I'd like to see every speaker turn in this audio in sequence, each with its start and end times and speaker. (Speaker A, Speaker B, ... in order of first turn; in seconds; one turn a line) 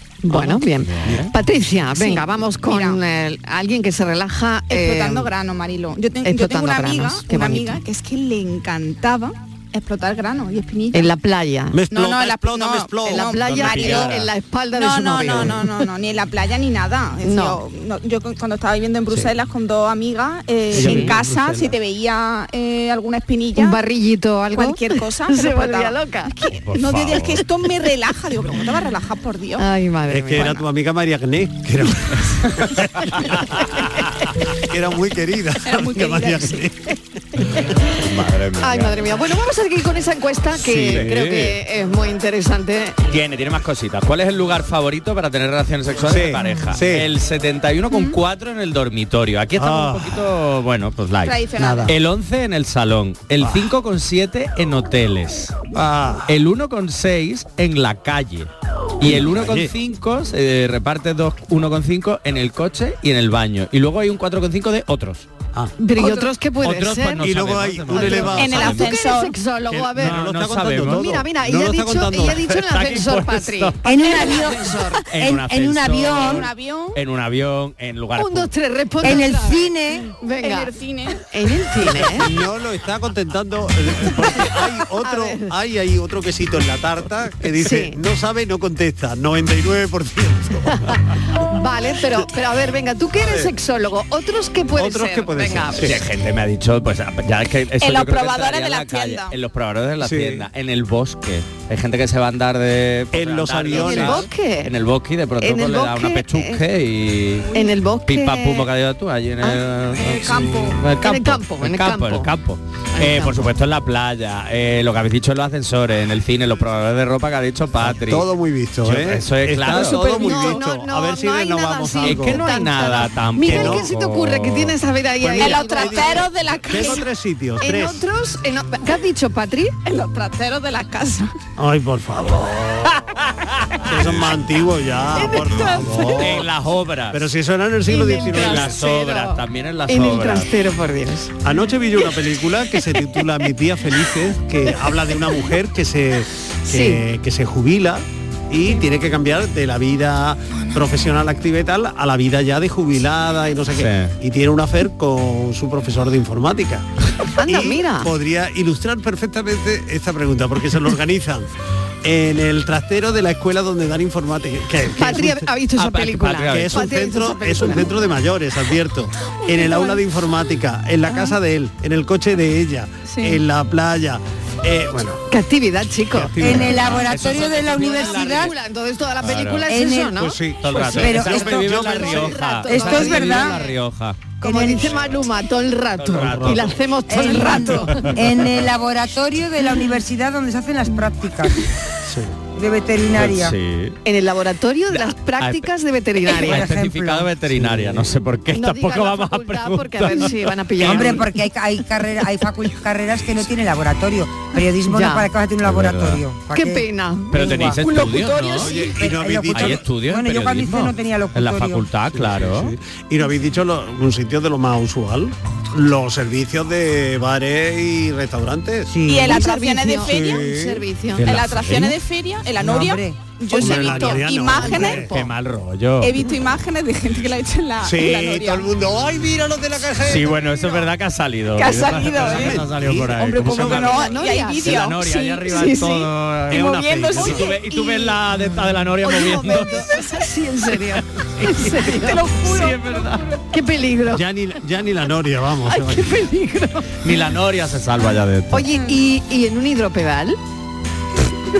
Speaker A: 0.2-5.3
Speaker B: 0.3-1.3
Speaker C: 1.9-3.0
Speaker C: 4.7-11.1
Speaker A: 6.2-7.8
Speaker A: 10.9-11.8
Speaker D: 11.7-13.6
Speaker C: 11.9-14.2
Speaker A: 13.0-15.9
Speaker B: 13.4-14.3
Speaker C: 14.7-23.8
Speaker A: 17.2-17.6
Speaker D: 20.7-21.8
Speaker A: 20.7-21.1
Speaker A: 23.6-26.4
Speaker C: 24.5-29.6
Speaker B: 26.5-27.5
Speaker A: 29.6-30.6
Speaker D: 30.1-33.8
Speaker D: 34.5-36.9
Speaker C: 35.6-36.7
Speaker B: 38.0-39.1
Speaker A: 38.6-43.0
Speaker B: 40.6-41.6
Speaker B: 43.0-55.5
Speaker D: 46.0-47.1
Speaker D: 49.6-50.2
Speaker C: 51.2-51.9
Speaker D: 51.6-51.9
Speaker D: 53.4-53.6
Speaker D: 55.7-56.3
Speaker B: 56.3-65.3
Speaker D: 59.0-59.7
Speaker A: 65.8-67.3
Speaker C: 66.0-66.2
Speaker B: 66.6-68.9
Speaker D: 67.2-68.8
Speaker A: 67.9-70.2
Speaker C: 68.2-69.4
Speaker D: 69.7-72.5
Speaker B: 69.9-71.2
Speaker A: 70.8-75.0
Speaker B: 72.5-73.8
Speaker E: 73.8-76.5
Speaker B: 75.0-78.5
Speaker C: 76.0-77.0
Speaker A: 78.2-82.3
Speaker E: 79.0-80.1
Speaker C: 80.4-81.2
Speaker D: 81.8-91.0
Speaker A: 84.5-85.5
Speaker A: 87.6-88.0
Speaker A: 91.4-96.0
Speaker D: 93.2-93.5
Speaker D: 94.7-96.0
Speaker B: 95.8-107.5
Speaker C: 97.8-99.3
Speaker D: 100.0-100.5
Speaker D: 103.1-104.3
Speaker A: 103.7-104.7
Speaker A: 105.4-106.6
Speaker A: 107.5-108.7
Speaker B: 108.0-118.2
Speaker C: 110.0-110.8
Speaker A: 110.9-112.3
Speaker A: 112.9-113.5
Speaker D: 117.8-122.5
Speaker B: 118.8-120.6
Speaker A: 119.6-127.0
Speaker B: 122.0-124.8
Speaker D: 123.4-123.9
Speaker D: 125.2-128.0
Speaker C: 125.3-127.0
Speaker A: 127.6-129.8
Speaker C: 129.8-131.3
Speaker D: 131.6-133.0
Speaker B: 133.3-134.3
Speaker D: 133.8-136.5
Speaker A: 135.1-136.3
Speaker B: 135.8-137.2
Speaker D: 137.1-138.8
Speaker A: 137.8-141.3
Speaker B: 138.3-140.5
Speaker D: 141.4-156.8
Speaker A: 146.7-147.0
Speaker B: 153.8-154.1
Speaker A: 157.4-158.1
Speaker D: 157.4-161.5
Speaker D: 162.0-165.5
Speaker A: 164.9-168.0
Speaker B: 165.8-166.8
Speaker D: 166.5-175.2
Speaker C: 173.1-173.4
Speaker A: 175.3-176.8
Speaker D: 176.2-176.9
Speaker E: 176.4-178.5
Speaker B: 176.4-178.5
Speaker A: 177.5-183.7
Speaker B: 179.2-179.7
Speaker E: 179.7-180.2
Speaker D: 180.2-182.4
Speaker B: 180.6-185.2
Speaker E: 180.9-181.7
Speaker E: 182.7-183.6
Speaker A: 184.4-188.2
Speaker E: 184.4-185.0
Speaker B: 186.0-186.8
Speaker D: 186.2-186.6
Speaker E: 187.1-191.6
Speaker B: 187.3-188.1
Speaker D: 192.1-192.3
Speaker E: 192.5-193.6
Speaker B: 193.2-194.0
Speaker A: 194.0-196.7
Speaker B: 194.9-195.7
Speaker B: 196.3-200.3
Speaker E: 196.3-197.3
Speaker D: 197.6-198.1
Speaker A: 198.5-201.3
Speaker E: 200.8-207.9
Speaker A: 204.8-205.3
Speaker B: 205.6-206.2
Speaker A: 206.5-207.8
Speaker B: 207.3-208.8
Speaker D: 208.5-209.8
Speaker E: 208.9-211.8
Speaker B: 209.5-212.7
Speaker D: 212.1-219.0
Speaker E: 218.9-219.4
Speaker C: 219.0-220.5
Speaker A: 219.2-221.4
Speaker D: 220.0-220.8
Speaker B: 221.2-222.0
Speaker C: 221.2-225.0
Speaker E: 222.6-223.9
Speaker D: 223.5-225.1
Speaker A: 223.6-224.3
Speaker B: 225.1-226.2
Speaker C: 226.0-228.7
Speaker D: 227.8-230.8
Speaker B: 230.0-240.0
Speaker C: 231.6-232.6
Speaker D: 232.1-234.1
Speaker C: 233.3-235.8
Speaker A: 233.4-234.9
Speaker A: 235.5-236.1
Speaker C: 236.5-237.6
Speaker D: 236.5-237.6
Speaker A: 239.0-242.3
Speaker B: 241.3-243.3
Speaker C: 241.8-242.9
Speaker A: 243.5-244.2
Speaker D: 244.1-246.2
Speaker A: 245.7-246.9
Speaker B: 247.0-248.7
Speaker A: 248.5-250.4